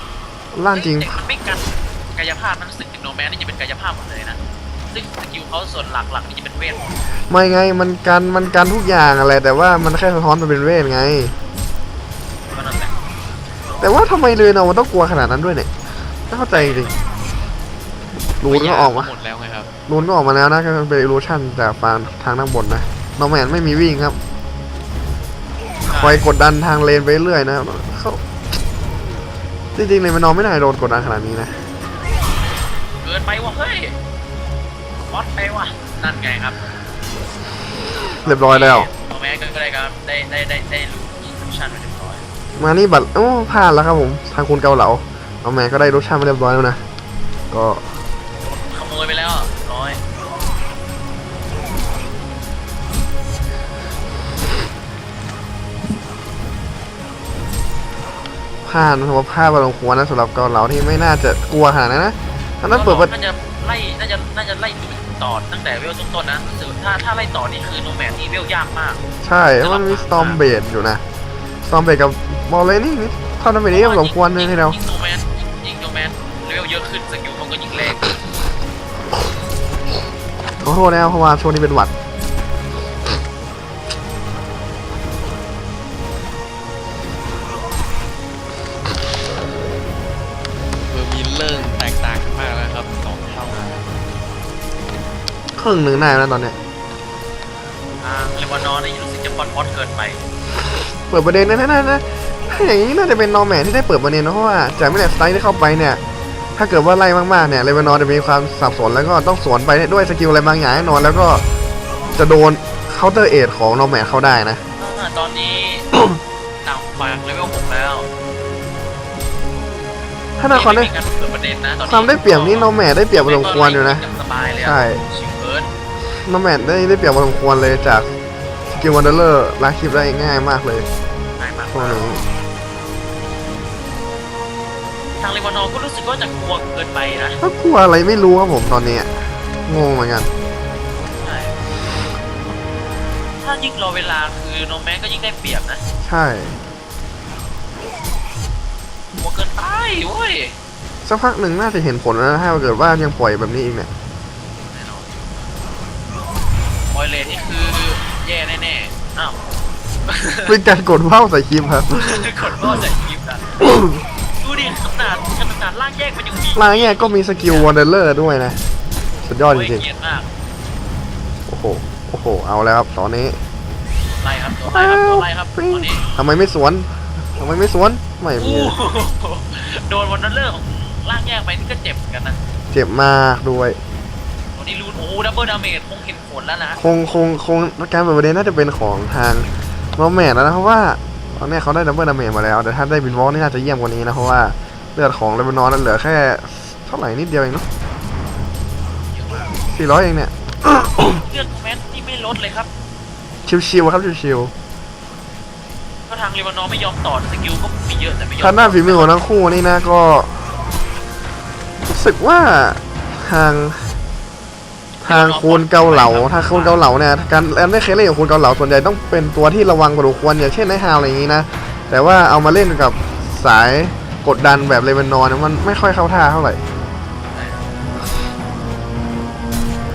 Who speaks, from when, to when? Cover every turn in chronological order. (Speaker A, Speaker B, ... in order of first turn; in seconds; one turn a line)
Speaker A: 0.5-1.1
Speaker B: 0.7-4.4
Speaker B: 4.9-7.0
Speaker A: 7.3-11.3
Speaker B: 12.5-12.9
Speaker A: 13.8-15.7
Speaker A: 16.3-16.9
Speaker B: 16.5-16.9
Speaker A: 18.4-19.1
Speaker C: 18.4-19.7
Speaker A: 19.9-24.1
Speaker A: 25.9-28.2
Speaker B: 25.9-26.2
Speaker A: 29.7-31.6
Speaker B: 33.0-33.9
Speaker B: 35.0-36.6
Speaker A: 38.0-38.9
Speaker B: 38.2-42.2
Speaker A: 42.6-46.8
Speaker A: 47.5-47.8
Speaker B: 48.4-50.0
Speaker A: 58.6-63.1
Speaker B: 62.7-69.0
Speaker A: 69.2-71.0
Speaker B: 69.6-70.4
Speaker A: 71.6-74.8
Speaker B: 73.7-78.1
Speaker A: 80.6-81.9
Speaker C: 90.9-93.9
Speaker A: 95.6-96.5
Speaker B: 98.0-100.2
Speaker A: 101.1-106.0
Speaker A: 106.5-111.4
Speaker A: 112.2-114.6
Speaker B: 114.8-115.9
Speaker B: 116.6-118.1
Speaker A: 120.4-120.9
Speaker B: 120.4-125.7
Speaker A: 121.9-124.0
Speaker A: 124.6-125.0
Speaker A: 126.2-128.1
Speaker A: 128.7-130.9
Speaker B: 131.4-132.1
Speaker A: 131.7-132.2
Speaker B: 135.2-137.4
Speaker A: 137.4-139.1
Speaker A: 139.7-140.3
Speaker B: 141.1-141.5
Speaker B: 143.4-145.8
Speaker A: 146.0-146.6
Speaker B: 149.1-150.6
Speaker A: 151.0-153.9
Speaker B: 154.6-155.4
Speaker B: 156.9-159.4
Speaker B: 160.1-160.6
Speaker A: 160.4-162.2
Speaker B: 161.9-163.5
Speaker A: 163.7-163.9
Speaker B: 164.4-167.7
Speaker A: 166.5-168.6
Speaker A: 169.2-169.8
Speaker B: 169.5-170.3
Speaker A: 171.5-173.4
Speaker B: 174.1-176.0
Speaker A: 174.7-178.7
Speaker B: 178.4-182.4
Speaker A: 182.7-183.8
Speaker B: 184.5-186.8
Speaker A: 186.8-197.7
Speaker B: 199.1-199.5
Speaker A: 199.7-201.2
Speaker B: 201.2-202.7
Speaker A: 203.4-204.5
Speaker B: 206.1-209.1
Speaker A: 208.4-210.3
Speaker A: 211.9-213.8
Speaker A: 215.0-226.6
Speaker B: 215.0-216.8
Speaker B: 227.3-227.6